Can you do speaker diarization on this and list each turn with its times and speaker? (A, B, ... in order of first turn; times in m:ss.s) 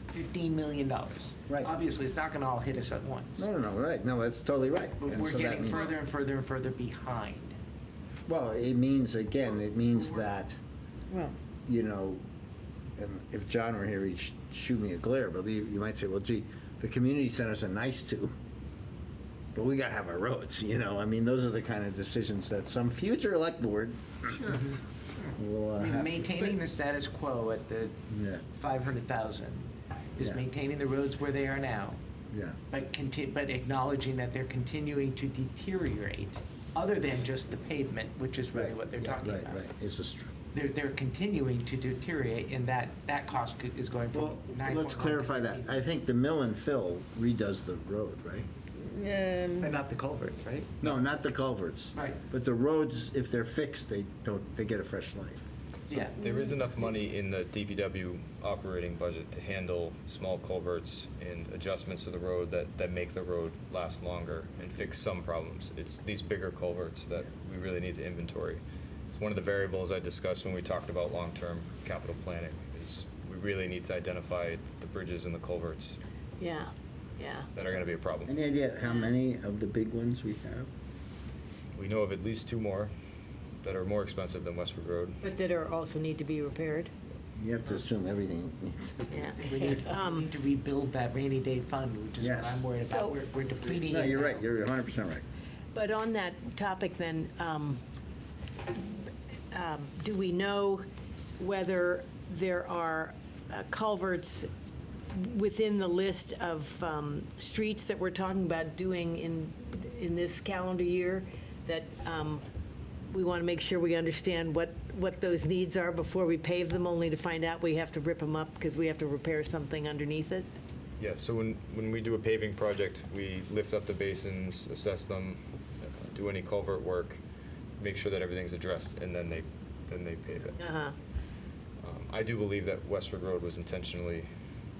0:00.1-0:03.5 A
0:03.4-0:05.9 B
0:05.0-0:07.6 A
0:08.3-0:10.6 B
0:11.7-0:12.2 B
0:13.0-0:18.3 B
0:19.6-0:24.4 B
0:24.4-0:24.7 A
0:25.3-0:26.4 B
0:25.8-0:28.0 A
0:28.1-0:28.4 B
0:28.5-0:32.0 A
0:32.3-0:32.6 B
0:32.7-0:39.6 A
0:38.5-0:40.3 B
0:40.5-0:45.9 A
0:44.1-0:48.5 B
0:49.6-0:51.0 A
0:50.8-0:55.4 B
0:52.0-0:52.2 A
0:55.9-1:16.0 C
0:55.9-0:56.1 A
1:16.4-1:17.5 D
1:17.5-1:18.3 C
1:18.2-1:20.7 B
1:21.8-1:22.9 C
1:23.6-1:25.2 C
1:25.2-1:26.9 D
1:27.4-1:29.1 B
1:29.1-1:30.2 D
1:29.4-1:34.4 A
1:32.2-1:32.7 B
1:32.8-1:33.2 D
1:33.8-1:35.2 B
1:35.7-1:37.8 D
1:39.5-1:40.8 D
1:41.4-1:44.5 D
1:45.1-1:52.4 D
1:53.1-2:00.5 D
2:01.0-2:07.2 C
2:07.8-2:10.6 C
2:10.6-2:10.9 D
2:11.8-2:14.3 C